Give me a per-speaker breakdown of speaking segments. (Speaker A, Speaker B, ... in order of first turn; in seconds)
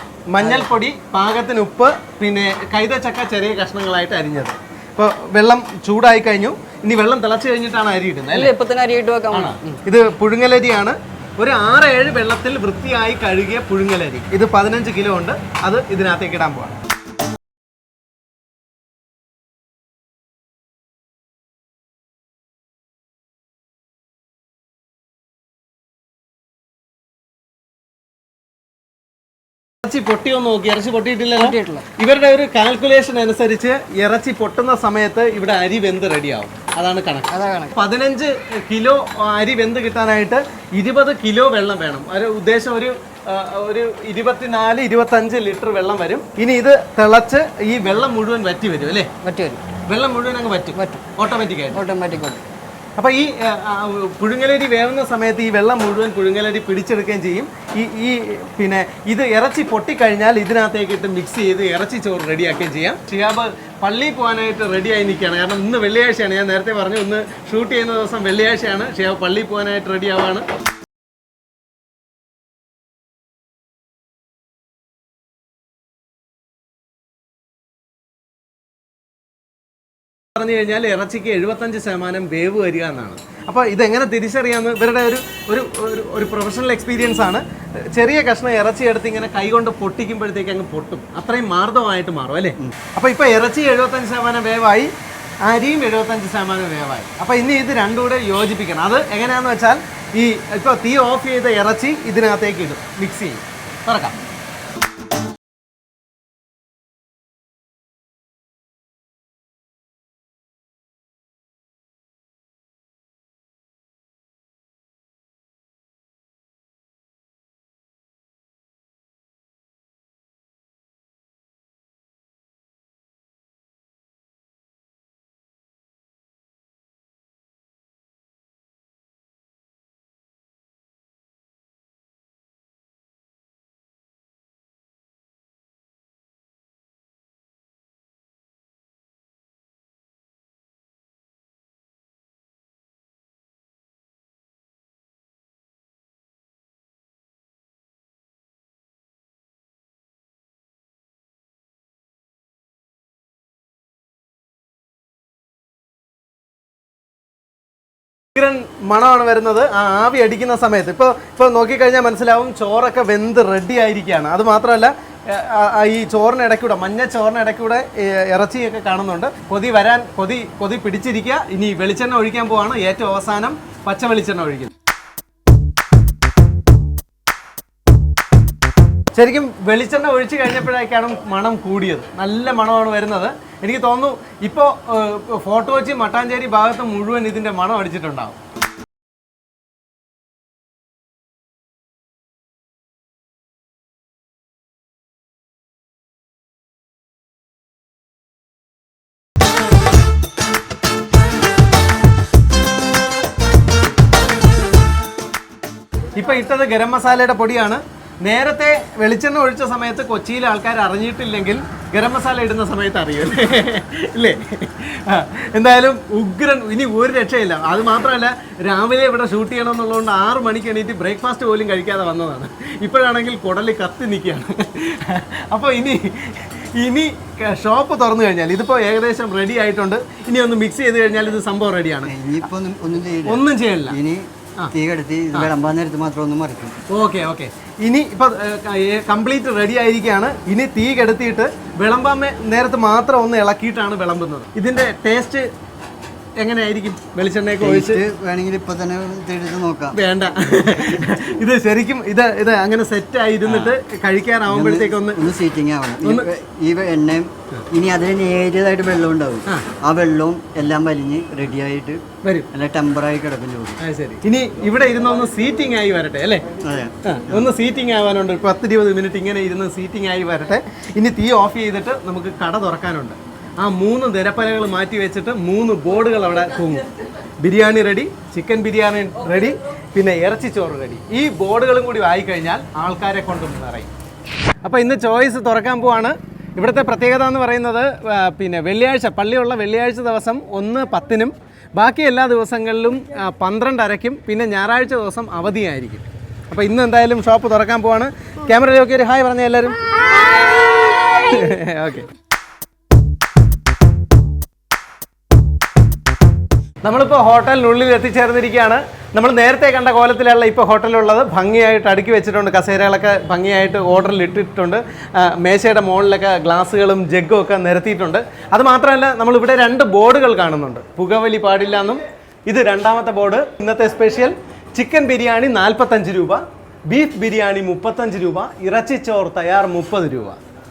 Speaker A: 0.3-8.5, 9.3-16.8, 29.8-49.1, 49.9-51.8, 53.0-70.5, 80.4-94.9, 95.5-104.2, 158.4-174.7, 179.2-188.4, 206.2-232.1, 233.3-234.0, 236.9-245.5, 246.4-248.0, 249.9-255.3, 256.0-256.3, 262.2-262.5, 263.8-266.4, 267.0-276.9, 277.4-283.9, 284.6-299.8, 301.1-302.1, 306.8-330.4
Speaker B: 0.4-0.7, 8.3-9.8, 31.4-31.9, 37.3-37.7, 49.2-49.6, 50.7-51.1, 51.7-52.4
Speaker C: 232.1-236.8, 247.6-250.0, 253.4-253.8, 254.5-263.8, 266.6-267.5